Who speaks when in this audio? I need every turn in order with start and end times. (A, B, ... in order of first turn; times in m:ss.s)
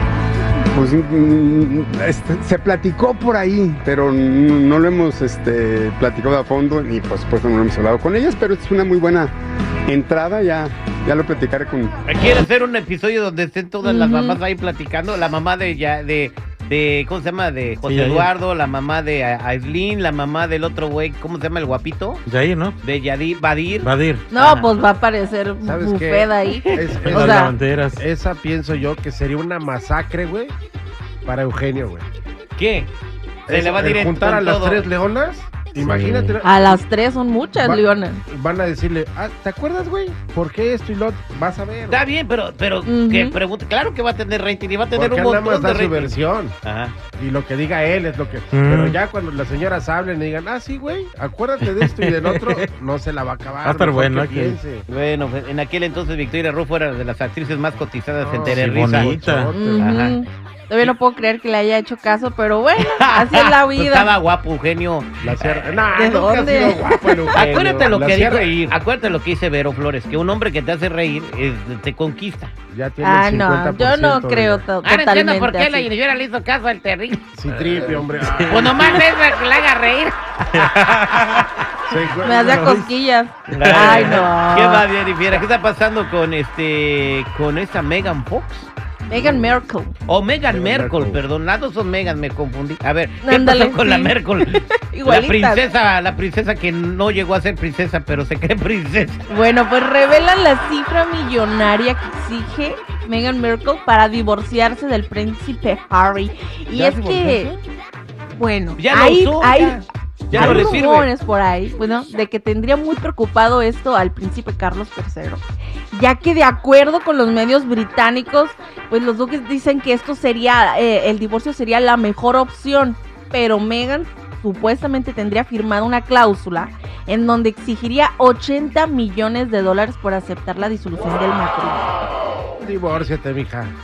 0:00.7-0:09.3 A
0:09.9-0:12.0 A
0:12.1-0:22.2 B
0:13.8-0:14.4 C
0:17.8-0:18.3 D
0:22.3-0:22.8 D
0:22.8-0:24.7 B
0:23.8-0:24.2 D
0:24.3-0:27.5 C
0:25.6-0:30.6 E
0:26.6-0:26.9 B
0:27.0-0:28.0 D
0:31.2-0:32.1 E
0:32.6-0:32.9 B
0:33.5-0:34.9 B
0:33.5-0:36.8 E
0:35.8-0:36.4 D
0:36.4-0:38.2 C
0:37.6-0:42.0 E
0:41.9-0:47.0 B
0:42.9-0:43.4 C
0:44.9-0:46.6 E
0:47.2-0:54.8 E
0:48.5-0:49.0 D
0:51.6-0:52.7 D
0:53.6-0:54.6 D
0:54.9-0:59.1 B
0:58.2-0:59.8 E
0:58.4-0:59.5 D
0:59.5-1:04.1 C
0:59.8-1:00.2 B
1:03.2-1:05.8 B
1:05.2-1:08.7 E
1:06.0-1:07.4 C
1:07.3-1:12.5 B
1:12.7-1:14.6 E
1:13.0-1:15.9 C
1:14.8-1:20.7 B
1:17.4-1:19.0 E
1:18.2-1:19.0 D
1:20.5-1:22.9 D
1:21.9-1:22.7 E
1:22.2-1:24.8 C
1:23.5-1:24.3 D
1:23.5-1:28.7 B
1:29.1-1:29.9 C
1:29.1-1:29.6 E
1:30.1-1:39.2 B
1:30.5-1:31.2 E
1:33.2-1:35.6 C
1:39.3-1:47.5 C
1:46.7-1:47.6 B
1:48.4-1:49.8 C
1:48.8-1:51.1 B
1:50.3-2:11.9 C
1:50.4-1:50.7 E
2:12.6-2:13.8 E